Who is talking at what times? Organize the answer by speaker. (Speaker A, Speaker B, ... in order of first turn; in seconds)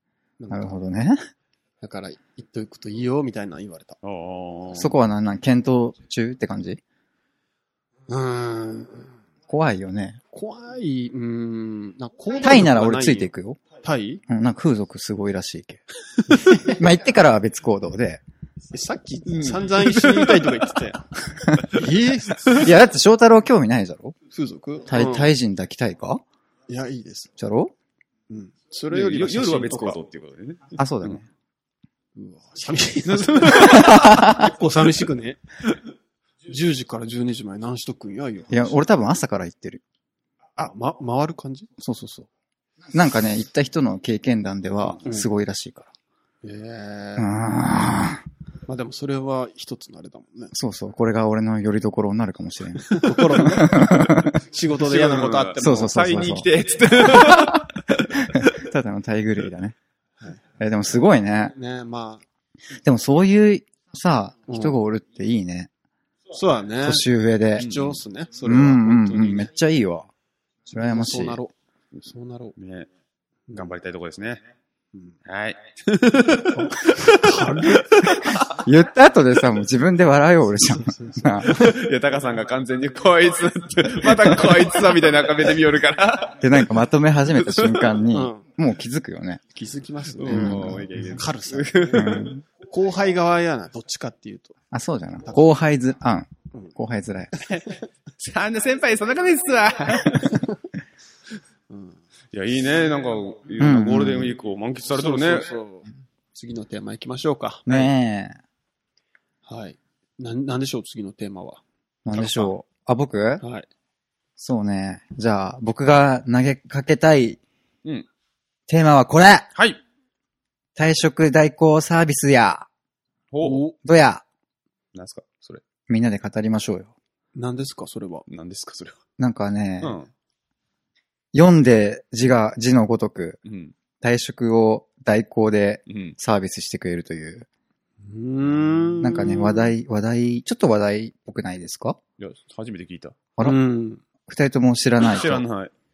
Speaker A: 0.4-0.8, 1.8-4.0, 8.1-9.1, 10.3-14.2, 16.3-16.8, 18.7-21.1, 21.6-22.7, 24.3-25.3, 26.7-27.3, 28.3-30.0, 32.1-35.4, 36.5-38.8, 40.6-41.7, 46.4-47.3, 48.7-50.5, 52.9-56.2, 61.5-62.2, 64.5-64.8, 66.3-69.5, 70.8-71.5, 72.1-72.5, 75.9-78.2, 80.7-81.8, 88.1-88.4, 89.5-94.5, 95.3-95.5, 97.3-97.8, 101.7-102.0, 105.0-107.9, 109.5-111.6, 113.4-113.7, 123.4-123.8, 127.3-128.3, 138.0-139.7, 143.4-144.0
Speaker B: 0.5-1.2, 4.8-6.8, 9.5-10.2, 12.4-13.6, 14.3-15.8, 16.5-18.2, 22.6-24.1, 24.9-26.2, 27.4-27.7, 30.8-31.3, 33.7-34.4, 38.5-39.8, 41.8-42.3, 42.9-45.9, 47.2-48.2, 50.5-54.4, 55.6-56.5, 57.1-57.6, 58.4-59.8, 60.6-61.6, 62.8-65.7, 66.8-67.7, 68.5-70.1, 70.7-71.4, 78.4-81.6, 86.4-89.4, 90.3-90.9, 91.9-92.4, 94.7-97.3, 103.6-104.3, 107.7-108.4, 112.0-113.4, 114.4-117.4, 118.7-119.5, 120.8-122.7, 123.8-124.2, 125.9-126.9, 129.2-130.0, 131.3-133.4, 134.0-137.5, 139.0-142.0, 144.3-145.4
Speaker C: 4.0-4.9, 19.3-20.7, 28.9-31.2, 33.1-34.1, 54.7-58.6, 67.6-68.0, 72.0-72.9, 73.5-74.4, 75.3-78.0, 81.5-86.7, 87.3-88.0, 90.2-92.4, 98.2-100.4, 102.3-105.5, 123.3-123.6, 124.9-125.6, 128.3-129.0, 129.8-130.1, 133.4-133.7, 135.9-136.2, 142.2-143.2, 145.0-145.7